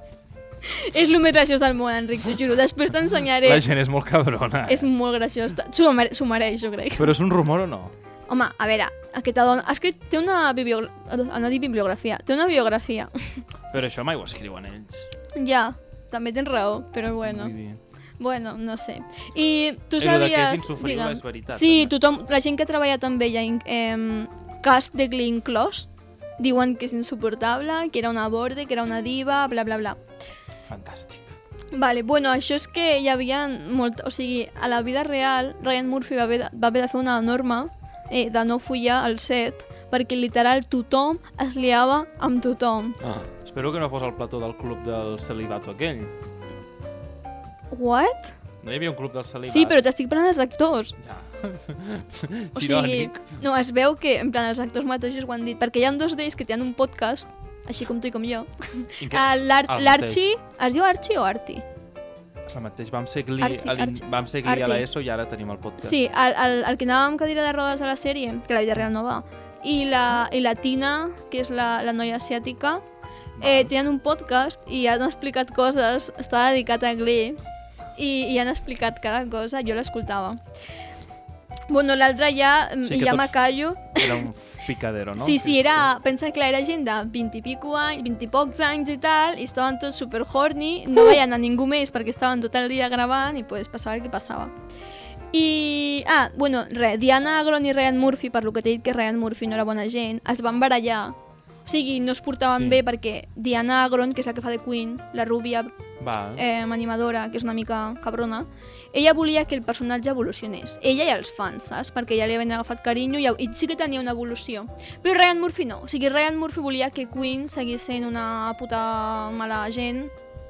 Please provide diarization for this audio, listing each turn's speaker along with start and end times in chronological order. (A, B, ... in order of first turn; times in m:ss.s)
0:00.6-0:03.6 A
0:03.4-0:04.9 B
0:04.7-0:07.2 A
0:07.0-0:07.9 B
0:08.3-0:13.4 A
0:13.7-0:15.1 B
0:15.3-0:17.5 A
0:17.2-0:17.8 B
0:18.2-0:30.0 A
0:20.0-0:21.9 B
0:30.6-0:31.3 B
0:31.7-0:43.0 A
0:43.0-0:46.1 B
0:47.7-0:48.3 A
0:48.6-0:49.8 B
0:49.5-0:51.0 A
0:51.0-0:53.2 B
0:52.5-1:01.6 A
0:59.0-1:00.3 B
1:02.5-1:06.0 B
1:03.4-1:04.8 A
1:05.8-1:12.8 A
1:13.4-1:13.7 B
1:13.4-1:17.4 A
1:18.0-1:20.4 A
1:21.7-1:24.2 A
1:22.8-1:23.3 B
1:23.8-1:25.8 B
1:25.2-1:34.5 A
1:35.3-1:45.7 A
1:42.5-1:42.8 B
1:46.0-1:46.4 B
1:46.3-2:00.1 A